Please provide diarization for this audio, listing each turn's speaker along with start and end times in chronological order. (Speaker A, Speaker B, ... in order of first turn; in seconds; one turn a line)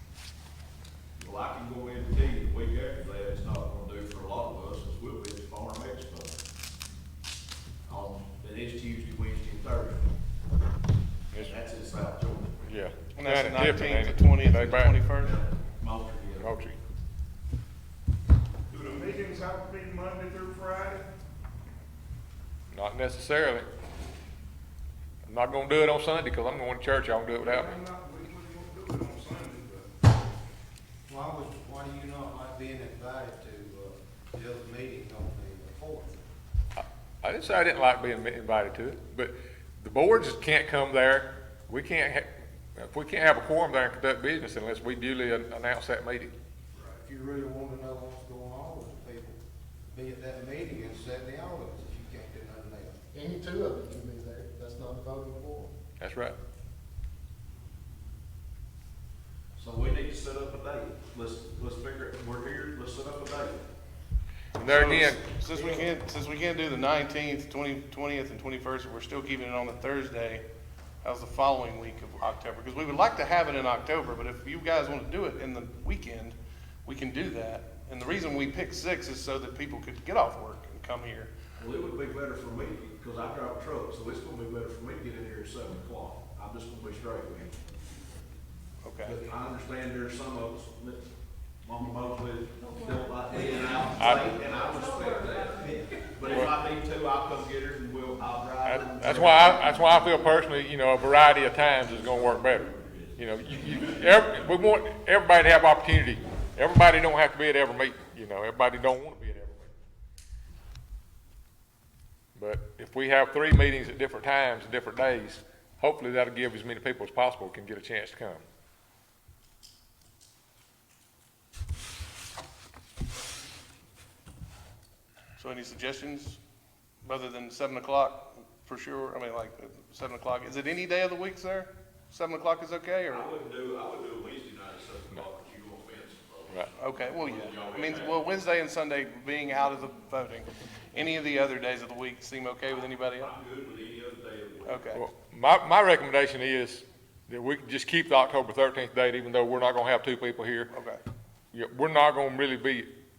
Speaker A: 1.2-6.4
Speaker A: 7.9-10.1
Speaker A: 11.4-12.6
Speaker B: 12.6-15.0
Speaker C: 13.2-15.3
Speaker A: 15.1-16.5
Speaker B: 16.4-16.8
Speaker D: 18.7-21.1
Speaker B: 22.7-23.7
Speaker B: 25.3-27.8
Speaker D: 27.4-29.9
Speaker E: 31.1-36.3
Speaker B: 36.8-46.3
Speaker E: 46.8-49.4
Speaker E: 49.9-53.0
Speaker F: 53.1-55.7
Speaker B: 56.0-56.4
Speaker A: 59.6-63.7
Speaker B: 64.6-65.8
Speaker C: 64.6-70.5
Speaker C: 71.0-81.3
Speaker A: 81.6-87.5
Speaker C: 88.8-89.2
Speaker A: 89.0-91.1
Speaker A: 91.6-100.1
Speaker B: 94.0-94.4
Speaker B: 96.2-96.5
Speaker B: 98.6-109.7
Speaker A: 101.8-104.2
Speaker B: 112.4-118.4
Speaker C: 125.4-126.4
Speaker C: 127.0-133.3
Speaker A: 133.1-138.2
Speaker C: 136.8-143.3
Speaker A: 143.2-145.0
Speaker C: 144.7-145.0
Speaker B: 144.9-150.7
Speaker C: 150.7-151.0
Speaker B: 151.5-152.9